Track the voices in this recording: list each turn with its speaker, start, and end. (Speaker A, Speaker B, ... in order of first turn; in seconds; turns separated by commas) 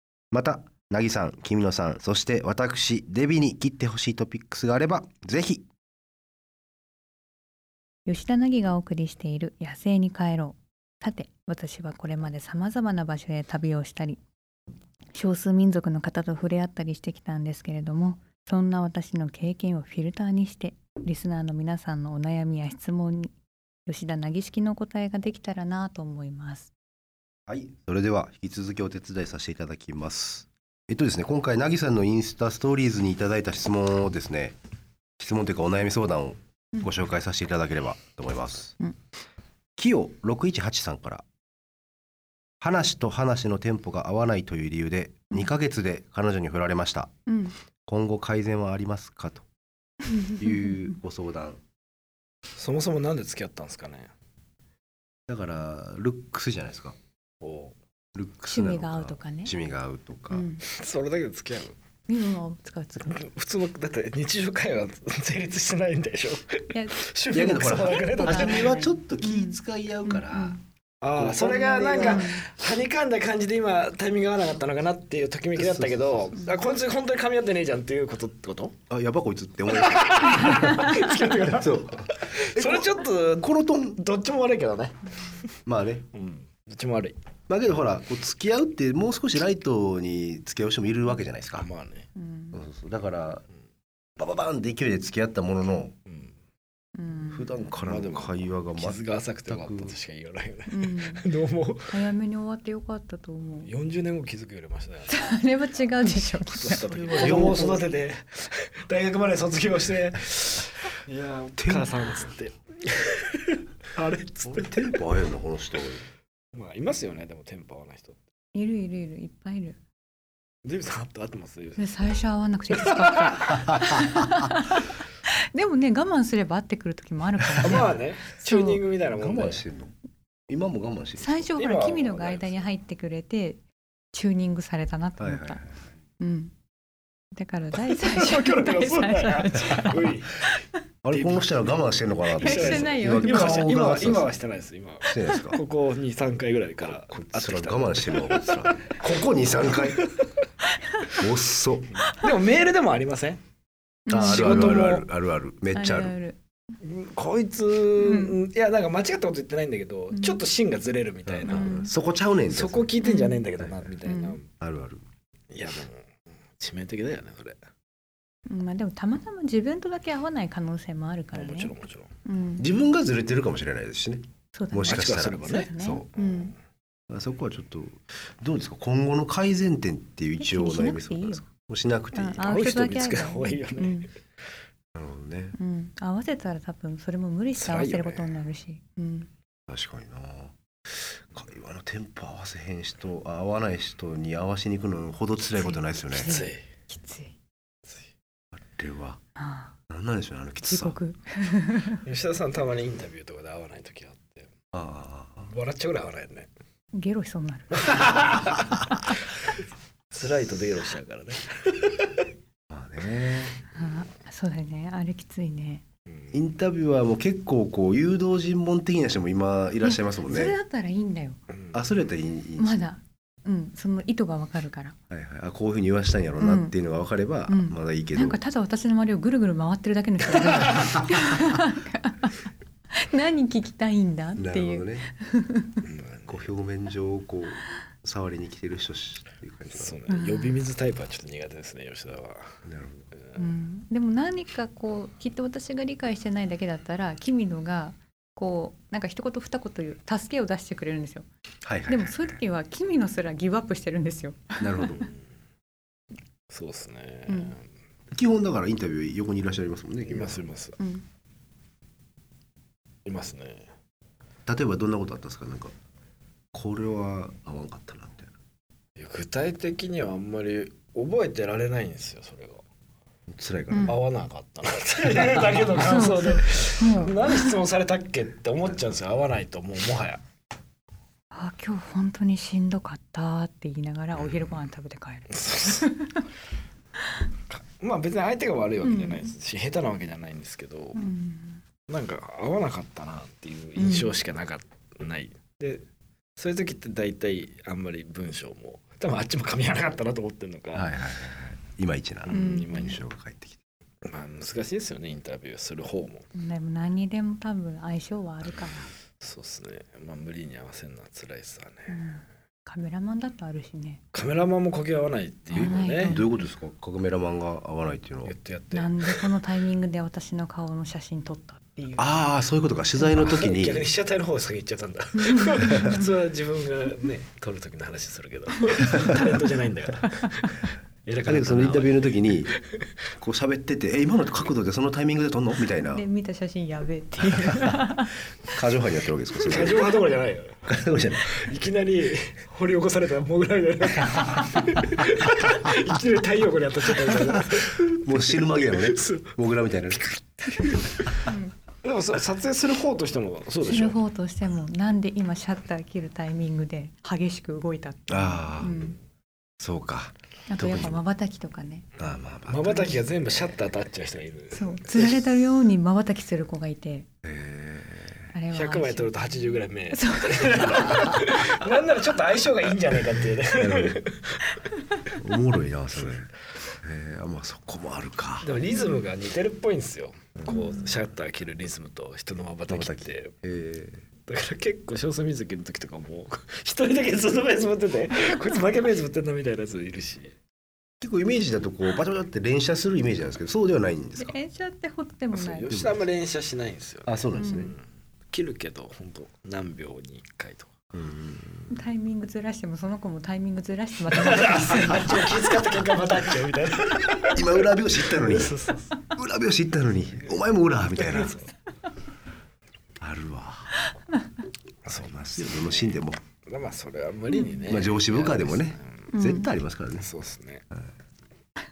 Speaker A: 0.3-5.7, Speaker B: 8.1-14.2, Speaker B: 15.1-23.3, Speaker B: 23.9-26.7, Speaker A: 27.5-34.6, Speaker A: 35.2-38.8, Speaker A: 39.8-41.2, Speaker A: 42.6-47.1, Speaker B: 47.3-47.6, Speaker A: 47.9-49.5, Speaker B: 50.1-50.8, Speaker A: 50.4-51.6, Speaker C: 52.6-54.1, Speaker A: 55.3-57.0, Speaker C: 57.4-57.8, Speaker A: 58.1-60.5, Speaker B: 58.5-59.5, Speaker B: 60.3-60.6, Speaker C: 60.6-61.8, Speaker B: 62.1-63.2, Speaker C: 63.0-68.8, Speaker B: 66.7-70.6, Speaker A: 67.3-70.6, Speaker C: 71.0-78.8, Speaker A: 71.1-72.3, Speaker B: 72.0-72.4, Speaker A: 75.6-76.3, Speaker A: 78.9-80.8, Speaker C: 79.7-85.5, Speaker B: 80.5-80.8, Speaker A: 81.4-84.0, Speaker A: 85.7-86.1, Speaker C: 86.1-87.2, Speaker A: 87.5-91.7, Speaker C: 91.5-92.1, Speaker B: 92.2-92.6, Speaker A: 92.5-93.5, Speaker A: 94.2-96.0, Speaker C: 96.1-96.3, Speaker B: 97.0-97.7, Speaker A: 97.3-100.0, Speaker C: 97.8-102.1, Speaker B: 100.7-101.2, Speaker B: 101.9-103.7, Speaker C: 103.6-105.2, Speaker B: 105.1-107.5, Speaker C: 106.5-115.0, Speaker A: 106.6-107.9, Speaker A: 111.6-112.3, Speaker A: 114.5-116.1, Speaker C: 116.5-118.2, Speaker B: 118.5-119.8, Speaker C: 120.7-122.0, Speaker B: 121.8-128.8, Speaker C: 122.7-123.9, Speaker C: 127.6-129.7, Speaker A: 127.6-127.9, Speaker A: 129.1-129.9, Speaker A: 130.5-131.5, Speaker B: 131.2-135.6, Speaker C: 131.6-132.6, Speaker A: 135.2-135.8, Speaker B: 136.2-136.5, Speaker B: 137.3-140.6, Speaker C: 137.8-140.5, Speaker A: 141.0-144.3, Speaker C: 141.1-141.7, Speaker B: 142.3-143.8, Speaker C: 142.3-149.1, Speaker A: 145.1-145.6, Speaker B: 145.2-145.6, Speaker A: 146.9-150.0, Speaker C: 149.7-150.2, Speaker A: 151.1-152.0, Speaker C: 152.1-153.4, Speaker B: 154.1-155.0, Speaker A: 154.1-156.2, Speaker C: 154.1-155.1, Speaker B: 155.7-156.4, Speaker C: 156.8-161.8, Speaker B: 158.0-158.4, Speaker B: 160.1-160.4, Speaker A: 161.3-162.9, Speaker B: 161.5-161.9, Speaker C: 162.5-164.5, Speaker B: 163.0-163.4, Speaker A: 163.6-164.0, Speaker B: 164.1-164.4, Speaker A: 164.6-165.0, Speaker C: 165.5-167.6, Speaker B: 168.5-171.7, Speaker C: 171.3-172.1, Speaker B: 172.2-172.7, Speaker A: 172.6-176.1, Speaker B: 174.5-176.6, Speaker C: 174.9-176.4, Speaker A: 177.1-182.5, Speaker B: 180.4-181.4, Speaker B: 182.1-184.1, Speaker C: 182.4-184.1, Speaker A: 184.9-185.6, Speaker B: 185.6-189.3, Speaker C: 187.6-188.4, Speaker A: 189.7-196.4, Speaker B: 195.6-197.4, Speaker C: 196.2-196.6, Speaker A: 198.5-199.2, Speaker B: 199.4-199.7, Speaker A: 199.9-201.0, Speaker B: 200.7-202.0, Speaker C: 202.0-204.5, Speaker A: 204.7-205.5, Speaker C: 205.4-206.5, Speaker B: 206.9-208.0, Speaker C: 207.8-209.2, Speaker C: 210.1-212.3, Speaker A: 212.7-213.6, Speaker B: 213.7-215.8, Speaker A: 216.3-220.6, Speaker B: 219.8-221.4, Speaker A: 221.7-222.8, Speaker B: 222.6-225.0, Speaker A: 225.1-228.4, Speaker B: 226.4-226.7, Speaker B: 227.5-235.8, Speaker A: 234.4-235.1, Speaker C: 235.8-236.5, Speaker A: 236.3-240.0, Speaker C: 239.7-242.6, Speaker B: 240.1-240.6, Speaker A: 242.7-243.1, Speaker C: 243.2-243.5, Speaker B: 243.4-251.3, Speaker A: 251.6-252.4, Speaker B: 251.9-255.0, Speaker A: 254.6-255.1, Speaker C: 256.5-257.6, Speaker B: 257.3-257.6, Speaker A: 258.1-260.4, Speaker C: 260.1-260.8, Speaker B: 260.8-261.1, Speaker C: 263.1-263.7, Speaker A: 264.5-265.7, Speaker A: 266.5-268.3, Speaker C: 269.0-272.6, Speaker A: 273.3-274.0, Speaker B: 273.7-274.0, Speaker C: 273.9-280.2, Speaker B: 275.7-277.6, Speaker B: 281.3-286.2, Speaker C: 285.3-285.9, Speaker C: 287.5-291.0, Speaker B: 288.8-289.3, Speaker B: 291.0-291.6, Speaker C: 291.9-295.8, Speaker B: 293.8-294.2, Speaker C: 296.4-300.9, Speaker A: 300.7-303.6, Speaker C: 302.3-303.0, Speaker B: 302.3-303.0, Speaker C: 304.1-306.2, Speaker B: 306.3-308.9, Speaker C: 309.2-312.0, Speaker B: 311.9-314.0, Speaker C: 314.1-316.2, Speaker B: 315.5-316.4, Speaker A: 315.6-318.3, Speaker C: 318.2-319.4, Speaker B: 318.7-322.1, Speaker A: 322.0-323.9, Speaker C: 323.0-332.6, Speaker B: 325.2-326.1, Speaker A: 331.2-332.6, Speaker A: 333.2-336.1, Speaker B: 335.8-338.2, Speaker A: 338.5-339.9, Speaker C: 339.4-349.4, Speaker A: 340.7-341.3, Speaker A: 347.3-350.1, Speaker C: 349.9-354.0, Speaker B: 351.2-351.5, Speaker B: 353.6-359.0, Speaker A: 358.1-358.9, Speaker A: 359.6-361.0, Speaker B: 360.5-361.9, Speaker A: 362.0-363.0, Speaker C: 362.5-365.2, Speaker B: 364.5-367.1, Speaker A: 367.2-368.3, Speaker B: 368.3-371.3, Speaker C: 368.5-374.6, Speaker A: 373.5-374.0, Speaker A: 375.1-376.3, Speaker A: 376.8-378.5, Speaker C: 378.4-383.3, Speaker B: 378.7-379.1, Speaker B: 380.5-380.8, Speaker A: 382.7-384.0, Speaker C: 384.3-390.3, Speaker A: 391.0-394.4, Speaker B: 394.2-395.8, Speaker C: 395.3-400.7, Speaker A: 395.7-396.0, Speaker A: 397.1-397.7, Speaker B: 397.4-397.7, Speaker A: 400.9-401.8, Speaker B: 401.7-405.5, Speaker C: 404.1-409.0, Speaker A: 407.3-408.6, Speaker A: 409.1-411.4, Speaker C: 411.0-411.5, Speaker A: 413.0-413.7, Speaker C: 414.9-419.1, Speaker A: 415.2-416.2, Speaker B: 417.3-417.6, Speaker A: 417.7-420.1, Speaker B: 419.1-419.5, Speaker C: 420.0-420.6